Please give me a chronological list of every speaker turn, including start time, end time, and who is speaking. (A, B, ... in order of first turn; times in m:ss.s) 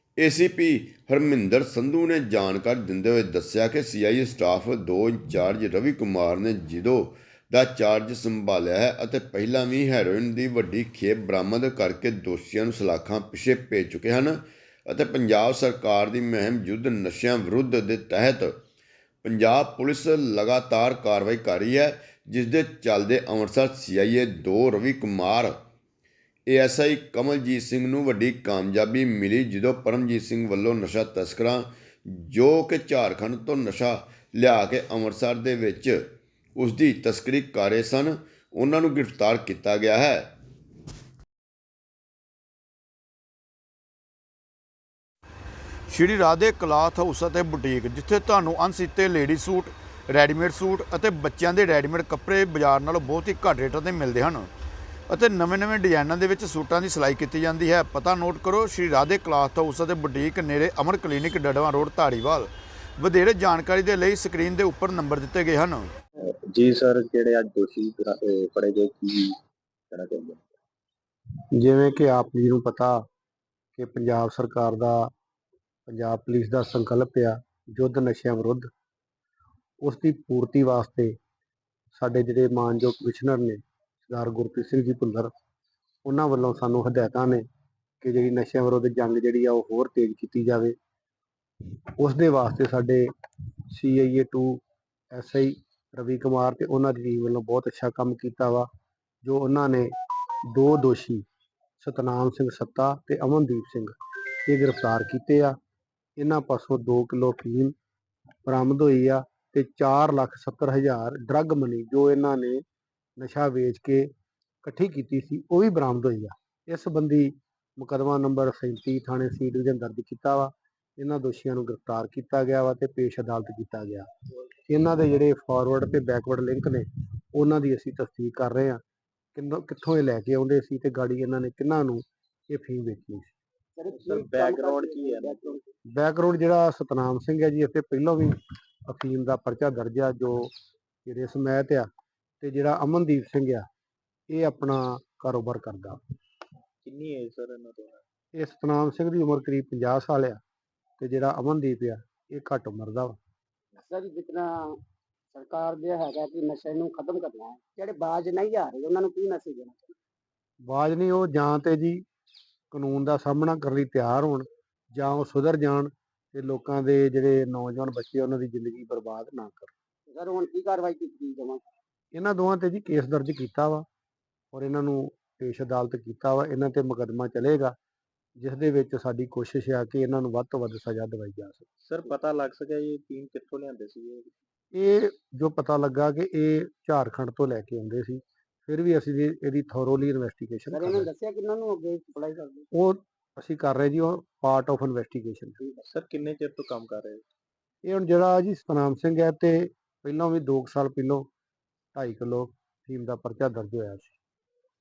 0:00.2-0:18.6 A
0:19.2-0:25.6 A
0:26.5-0:40.3 A
0:45.9-0:54.5 B
0:55.1-1:05.9 B
1:06.2-1:09.3 C
1:09.9-1:10.5 C
1:11.5-1:12.9 D
1:13.7-1:15.0 D
1:15.9-1:18.6 D
1:19.8-1:21.1 D
1:21.9-1:25.3 D
1:26.0-1:27.4 D
1:28.0-1:30.7 D
1:32.0-1:33.0 D
1:33.7-1:34.6 D
1:35.1-1:38.7 D
1:39.2-1:39.9 D
1:40.5-1:41.2 D
1:41.8-1:43.9 D
1:44.4-1:45.5 D
1:46.2-1:47.7 D
1:48.4-1:52.6 D
1:53.2-1:54.1 D
1:54.6-2:04.1 D
2:04.7-2:08.8 D
2:09.3-2:13.3 D
2:13.8-2:15.7 E
2:13.9-2:15.6 C
2:16.0-2:18.3 D
2:18.9-2:20.5 D
2:21.0-2:21.9 D
2:22.4-2:23.6 D
2:24.3-2:26.0 D
2:26.8-2:28.0 C
2:28.4-2:30.4 D
2:31.0-2:33.2 D
2:33.8-2:34.5 E
2:35.3-2:39.9 E
2:40.7-2:42.0 D
2:42.7-2:49.7 D
2:50.1-2:51.6 E
2:52.1-2:53.8 D
2:54.5-2:57.8 D
2:58.4-3:01.7 D
3:01.8-3:04.3 C
3:04.7-3:11.1 D
3:10.7-3:12.7 E
3:12.7-3:15.6 D
3:15.8-3:17.2 C
3:17.8-3:21.3 D
3:21.9-3:24.2 D